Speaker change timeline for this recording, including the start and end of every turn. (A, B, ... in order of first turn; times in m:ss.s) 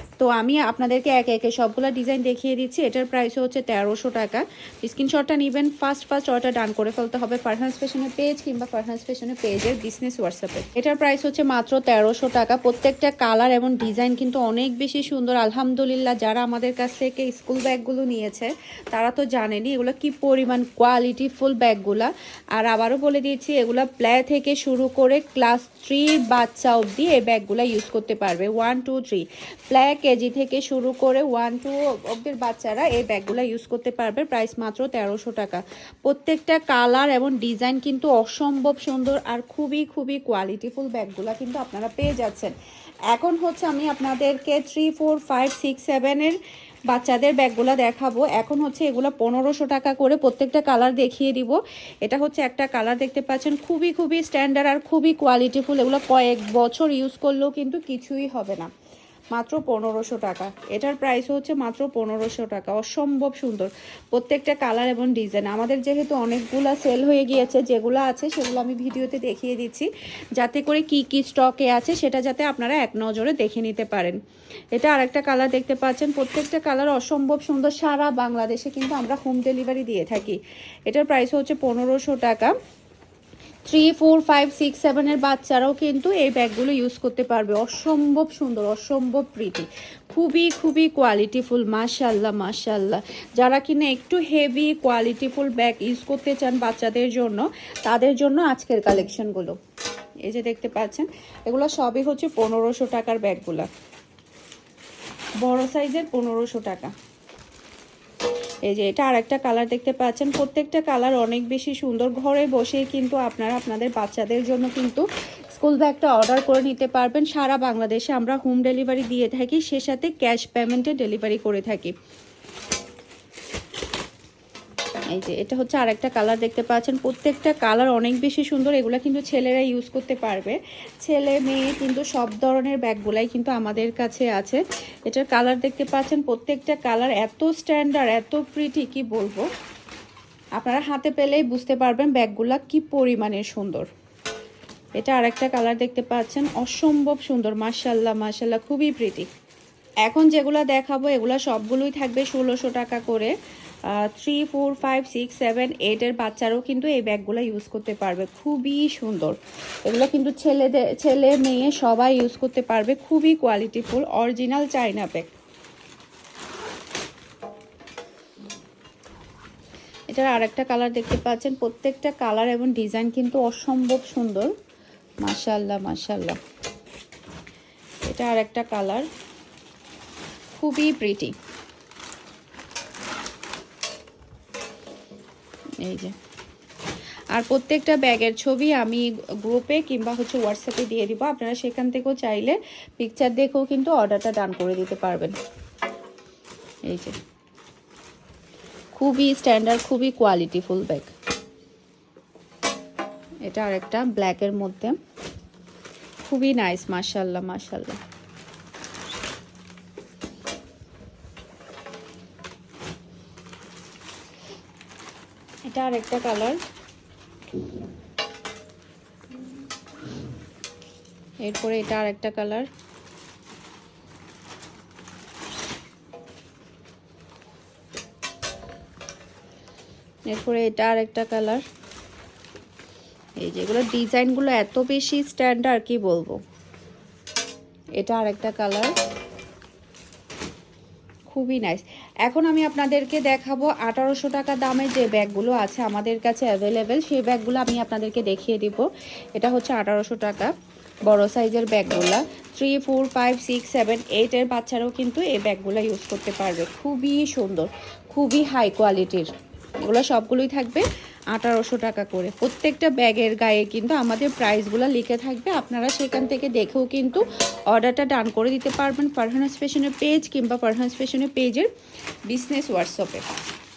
0:00.2-0:42.5 A
0:43.1-0:46.4 A
0:46.9-0:58.7 A
0:59.3-1:14.2 A
1:14.7-1:22.5 A
1:23.7-1:39.6 A
1:40.2-1:43.7 A
1:45.4-1:46.9 A
1:48.6-2:01.9 A
2:05.1-2:19.4 A
2:20.6-2:23.9 A
2:25.0-2:29.3 A
2:30.0-2:33.3 A
2:33.9-2:45.3 A
2:50.1-2:54.5 A
2:55.2-2:56.4 A
2:58.0-2:59.1 A
3:00.5-3:01.3 A
3:05.8-3:06.1 A
3:07.3-3:15.3 A
3:16.9-3:17.1 A
3:18.9-3:21.1 A
3:23.4-3:25.0 A
3:26.2-3:28.0 A
3:35.7-3:36.6 A
3:41.4-3:42.7 A
3:50.3-3:51.6 A
3:53.4-3:56.4 A
3:58.0-3:58.9 A
4:01.3-4:10.5 A
4:11.1-4:19.3 A
4:19.8-4:31.7 A
4:32.3-4:33.2 A